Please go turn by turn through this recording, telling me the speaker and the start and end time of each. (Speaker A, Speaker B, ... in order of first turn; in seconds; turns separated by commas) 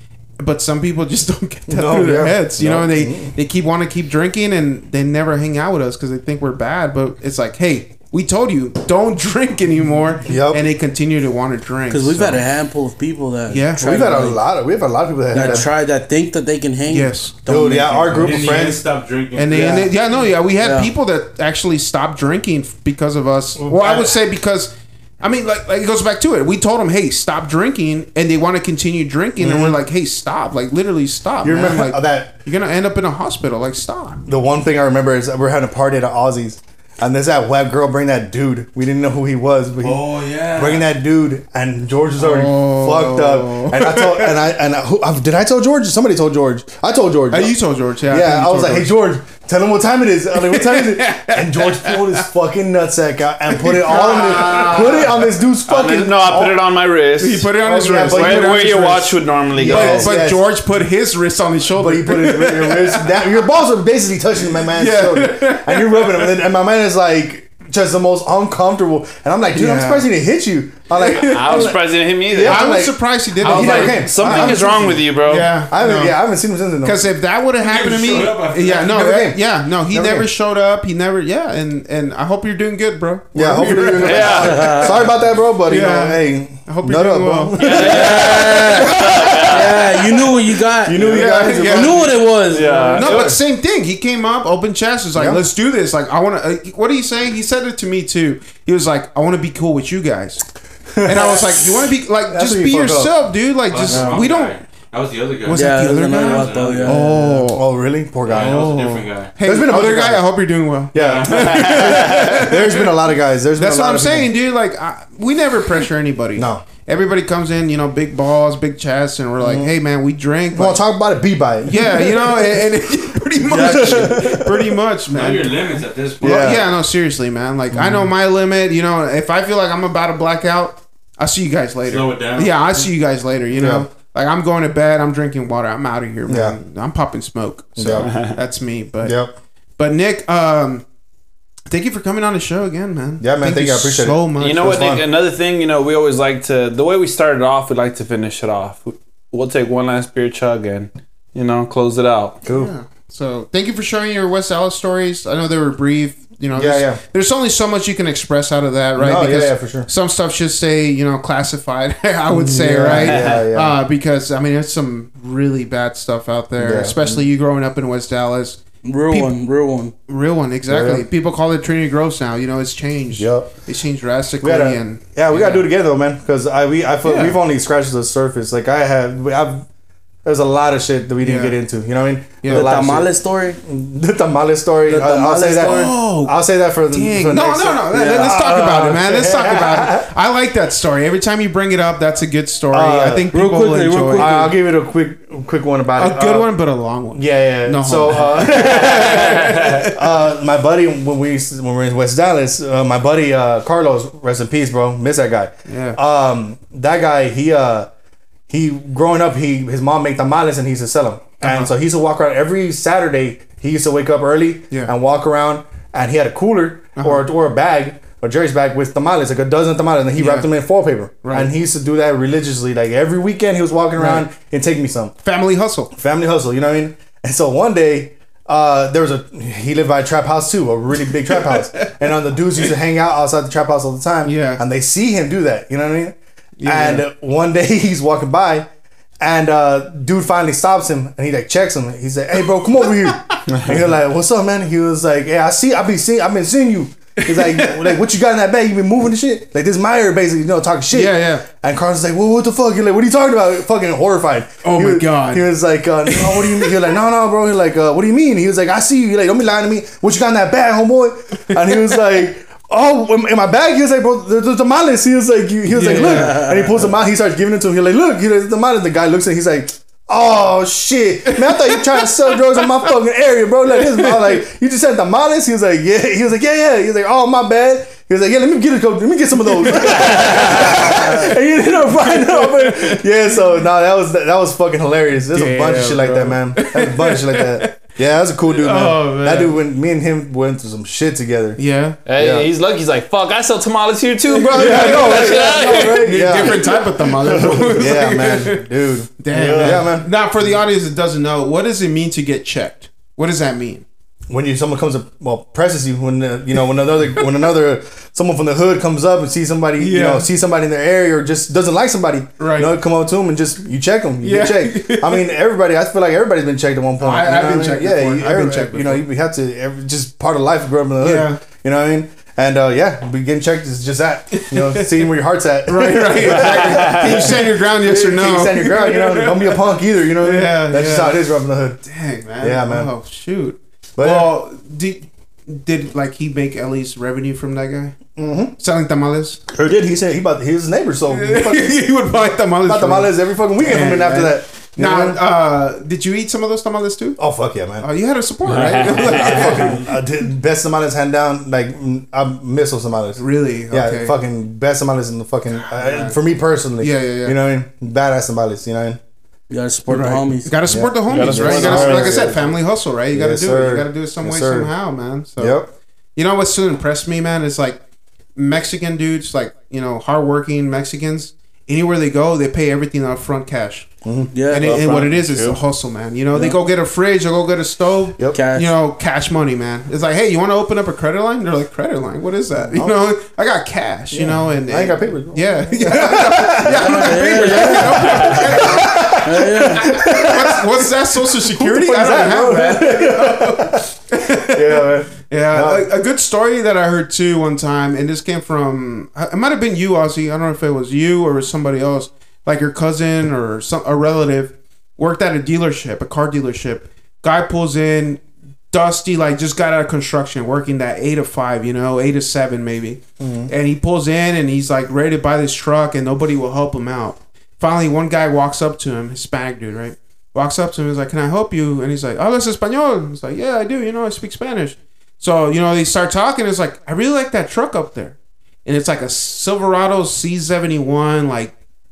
Speaker A: 0.4-12.4, Speaker B: 1.7-3.3, Speaker B: 10.2-10.6, Speaker C: 11.9-14.4, Speaker A: 13.5-13.9, Speaker B: 13.8-15.7, Speaker C: 15.3-18.4, Speaker A: 16.9-17.4, Speaker B: 17.4-18.9, Speaker D: 18.1-19.9, Speaker A: 19.3-34.2, Speaker C: 19.5-19.9, Speaker B: 19.5-19.8, Speaker C: 20.6-20.9, Speaker B: 23.6-24.2, Speaker B: 29.4-29.8, Speaker B: 31.4-32.3, Speaker B: 34.3-56.6, Speaker D: 39.8-40.9, Speaker A: 42.2-44.4, Speaker A: 47.3-48.9, Speaker A: 50.3-52.3, Speaker A: 53.5-55.3, Speaker E: 54.1-54.9, Speaker E: 55.7-60.1, Speaker A: 57.2-63.4, Speaker B: 57.6-58.9, Speaker B: 59.5-60.4, Speaker B: 61.8-75.0, Speaker A: 64.6-66.3, Speaker A: 69.5-70.1, Speaker A: 71.0-71.7, Speaker E: 71.1-72.9, Speaker A: 72.4-76.2, Speaker E: 73.4-75.5, Speaker B: 75.7-77.0, Speaker A: 76.8-84.5, Speaker D: 77.6-79.0, Speaker B: 78.7-80.3, Speaker B: 83.3-92.2, Speaker E: 84.0-85.0, Speaker C: 84.3-85.0, Speaker A: 85.7-88.7, Speaker E: 87.6-89.9, Speaker C: 88.5-93.0, Speaker A: 91.0-92.3, Speaker E: 92.4-93.4, Speaker A: 93.0-100.5, Speaker B: 93.0-93.4, Speaker B: 100.9-101.8, Speaker A: 101.0-104.6, Speaker B: 102.3-103.1, Speaker D: 103.7-107.0, Speaker C: 103.9-104.2, Speaker A: 105.5-107.6, Speaker C: 105.5-107.1, Speaker B: 107.0-108.7, Speaker D: 108.2-109.3, Speaker A: 108.3-112.9, Speaker B: 109.4-110.3, Speaker B: 110.9-114.3, Speaker D: 111.0-111.5, Speaker E: 111.5-111.9, Speaker A: 113.5-120.8, Speaker B: 116.4-116.6, Speaker B: 119.4-119.7, Speaker B: 120.5-122.7, Speaker A: 121.6-139.2, Speaker B: 123.5-124.6, Speaker C: 123.5-124.4, Speaker D: 125.1-126.6, Speaker B: 126.2-126.7, Speaker B: 127.7-128.1, Speaker D: 131.8-132.7, Speaker B: 133.5-133.9, Speaker B: 136.3-136.6, Speaker B: 137.8-138.1, Speaker E: 138.0-138.4, Speaker B: 139.0-139.3, Speaker A: 139.8-140.9, Speaker A: 141.7-144.9, Speaker B: 143.2-145.1, Speaker E: 144.4-152.4, Speaker B: 152.4-152.7, Speaker A: 152.5-169.4, Speaker B: 156.6-157.0, Speaker B: 158.9-159.9, Speaker B: 162.3-163.8, Speaker E: 162.9-163.4, Speaker B: 166.6-167.3, Speaker C: 168.8-169.9, Speaker A: 170.1-175.7, Speaker B: 170.7-171.1, Speaker B: 173.1-173.5, Speaker B: 174.4-179.7, Speaker A: 177.0-177.4, Speaker B: 180.2-190.1, Speaker A: 181.2-181.6, Speaker A: 182.4-182.7, Speaker C: 182.4-183.6, Speaker C: 184.9-185.9, Speaker A: 185.6-194.4, Speaker C: 187.9-188.8, Speaker B: 192.7-193.3, Speaker C: 193.3-194.6, Speaker B: 194.1-196.5, Speaker A: 195.9-200.1, Speaker B: 197.1-207.9, Speaker A: 205.7-206.0, Speaker B: 208.5-225.1, Speaker A: 211.4-211.7, Speaker A: 216.9-217.3, Speaker A: 220.2-220.5, Speaker A: 221.2-221.5, Speaker A: 224.0-224.3, Speaker A: 225.2-225.9, Speaker B: 225.9-238.7, Speaker A: 231.3-232.0, Speaker A: 234.2-234.6, Speaker A: 236.6-237.1, Speaker B: 239.2-291.6, Speaker A: 247.2-248.0, Speaker A: 250.9-251.4, Speaker A: 254.6-255.5, Speaker A: 256.1-256.9, Speaker A: 265.7-266.5, Speaker C: 266.0-266.8, Speaker A: 271.3-272.9, Speaker A: 273.7-274.4, Speaker A: 279.4-281.3, Speaker A: 281.9-283.0, Speaker A: 285.3-287.8, Speaker A: 288.5-289.6, Speaker A: 291.6-292.0, Speaker E: 292.1-296.1, Speaker B: 292.2-292.5, Speaker A: 294.3-298.7, Speaker B: 294.5-300.1, Speaker A: 299.2-303.9, Speaker B: 304.3-331.8, Speaker A: 309.8-310.3, Speaker A: 312.4-312.8, Speaker A: 314.2-315.3, Speaker A: 317.0-319.0, Speaker A: 321.0-321.4, Speaker A: 324.3-325.1, Speaker A: 325.7-329.6, Speaker E: 326.4-327.1, Speaker A: 330.2-331.2, Speaker A: 331.8-338.0, Speaker B: 332.4-332.9, Speaker B: 334.0-334.3, Speaker B: 338.2-338.5, Speaker A: 338.5-339.4, Speaker B: 339.5-341.9, Speaker A: 341.1-347.2, Speaker B: 342.6-345.2, Speaker B: 347.2-347.9, Speaker A: 347.8-349.8, Speaker E: 348.5-349.6, Speaker B: 348.7-359.0, Speaker A: 353.2-354.2, Speaker A: 355.5-356.1, Speaker A: 356.8-357.4, Speaker C: 359.5-360.6, Speaker A: 359.9-365.6, Speaker B: 359.9-362.6, Speaker E: 361.1-362.3, Speaker B: 363.1-364.7, Speaker B: 365.4-365.7, Speaker A: 366.1-367.8, Speaker A: 368.3-431.5, Speaker B: 374.0-375.6, Speaker C: 374.3-374.9, Speaker C: 376.3-376.6, Speaker C: 378.3-378.7, Speaker B: 382.6-383.1, Speaker B: 384.1-395.9, Speaker C: 386.7-388.2, Speaker C: 389.2-389.9, Speaker B: 413.2-413.5